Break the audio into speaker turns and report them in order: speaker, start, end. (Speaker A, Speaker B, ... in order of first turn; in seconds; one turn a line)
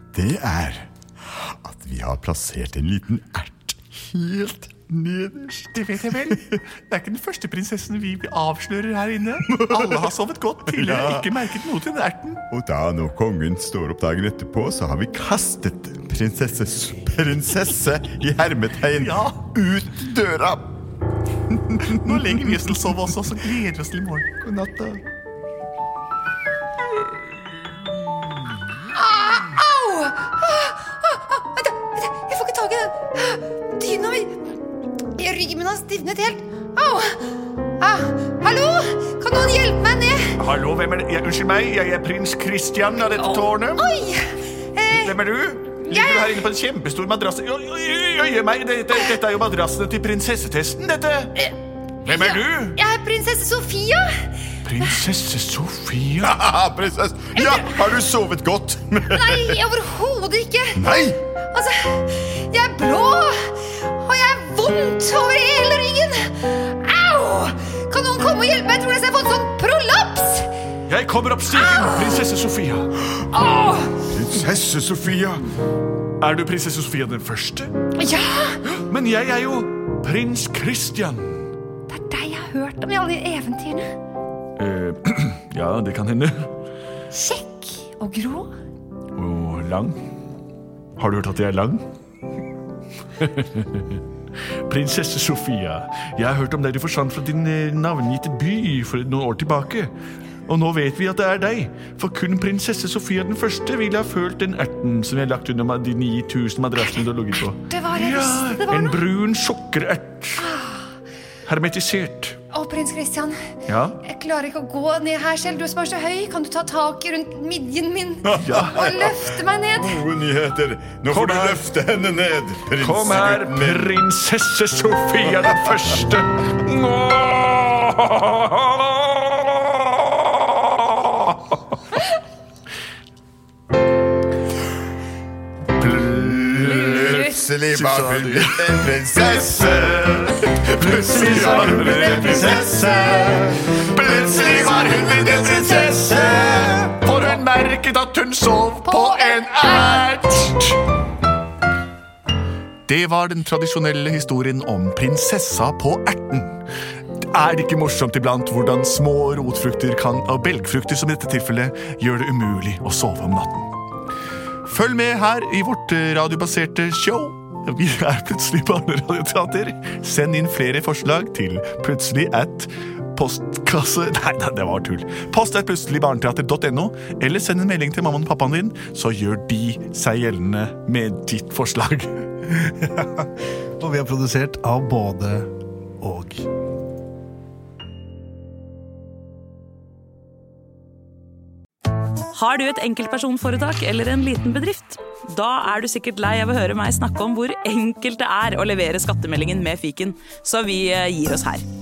Speaker A: 0.1-6.4
Speaker B: 5.7-12.4
Speaker A: 9.5-10.1
Speaker A: 10.7-11.3
Speaker A: 12.5-20.8
Speaker B: 18.9-19.4
Speaker A: 21.5-22.5
Speaker B: 21.8-25.0
Speaker C: 28.9-34.6
Speaker C: 35.1-37.3
Speaker C: 37.8-40.4
Speaker B: 40.4-43.9
Speaker C: 43.1-45.2
Speaker B: 44.9-51.5
Speaker C: 45.9-46.4
Speaker C: 52.0-54.9
Speaker B: 52.0-52.8
Speaker B: 54.6-56.4
Speaker A: 56.2-59.6
Speaker C: 57.4-57.9
Speaker C: 59.1-60.8
Speaker A: 60.8-61.2
Speaker C: 61.5-70.5
Speaker B: 70.9-73.0
Speaker C: 71.5-72.3
Speaker C: 73.3-74.0
Speaker A: 74.0-75.5
Speaker B: 76.2-77.7
Speaker C: 78.0-78.6
Speaker B: 78.7-81.4
Speaker C: 81.9-83.9
Speaker B: 84.6-86.5
Speaker C: 87.1-88.5
Speaker B: 89.1-90.0
Speaker B: 91.0-91.8
Speaker B: 93.2-94.0
Speaker B: 94.6-99.9
Speaker B: 100.5-110.5
Speaker C: 107.7-109.0
Speaker C: 110.4-110.9
Speaker B: 111.5-112.4
Speaker C: 112.5-113.5
Speaker B: 113.7-114.0
Speaker C: 114.0-120.0
Speaker A: 118.2-124.0
Speaker B: 118.4-118.9
Speaker B: 121.1-121.7
Speaker B: 122.8-129.5
Speaker B: 130.6-131.5
Speaker B: 135.8-142.9
Speaker A: 136.1-140.3
Speaker C: 136.5-137.4
Speaker A: 141.1-142.8
Speaker D: 141.2-143.6
Speaker C: 141.2-142.8
Speaker B: 143.6-150.8
Speaker C: 144.5-145.9
Speaker D: 146.0-146.8
Speaker C: 149.0-149.9
Speaker B: 152.9-156.6
Speaker B: 157.2-163.7
Speaker B: 164.7-182.3
Speaker D: 182.6-183.3
Speaker D: 183.8-186.5
Speaker E: 192.3-201.6